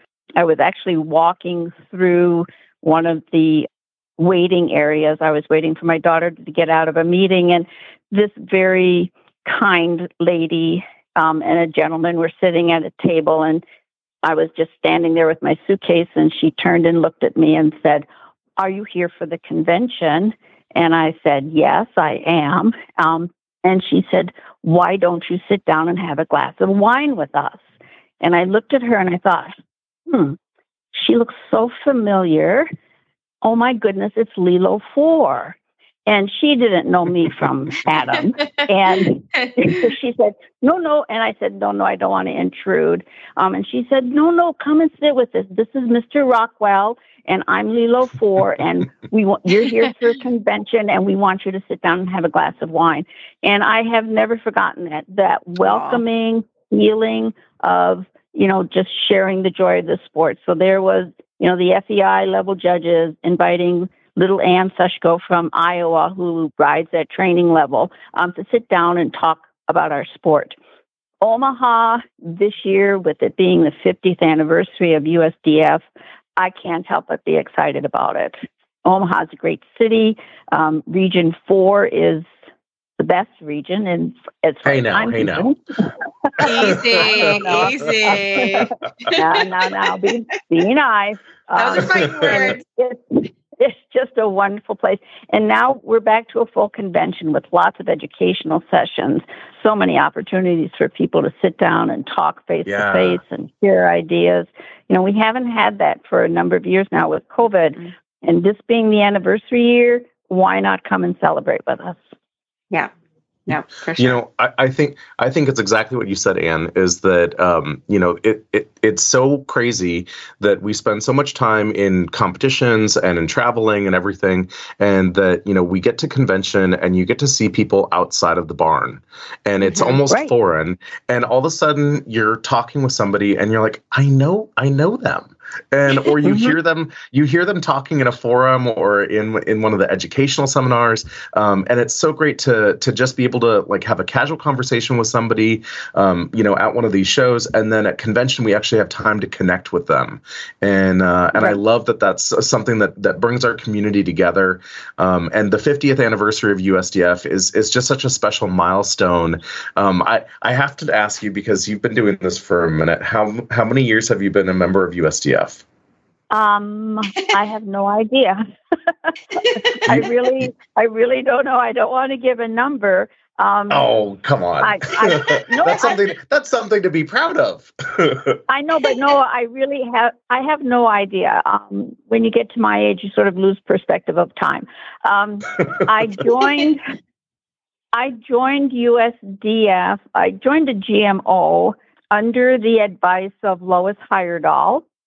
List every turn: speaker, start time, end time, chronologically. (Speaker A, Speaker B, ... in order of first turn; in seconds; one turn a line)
Speaker A: 0.3-13.6
Speaker A: 14.2-18.1
Speaker A: 18.6-27.6
Speaker A: 28.2-29.5
Speaker A: 30.1-30.4
Speaker A: 30.9-32.7
Speaker A: 33.4-35.5
Speaker A: 36.1-70.5
Speaker B: 55.6-56.0
Speaker A: 71.2-75.8
Speaker A: 76.4-82.3
Speaker A: 83.0-85.6
Speaker C: 84.6-85.5
Speaker A: 86.3-112.0
Speaker C: 86.4-87.2
Speaker B: 86.4-89.4
Speaker B: 91.5-92.6
Speaker C: 102.7-103.2
Speaker B: 113.5-114.2
Speaker C: 114.0-165.6
Speaker A: 136.2-136.5
Speaker A: 166.3-168.4
Speaker A: 169.1-173.8
Speaker B: 169.4-170.0
Speaker C: 173.7-178.4
Speaker A: 174.6-176.0
Speaker A: 178.5-186.8
Speaker A: 187.9-194.8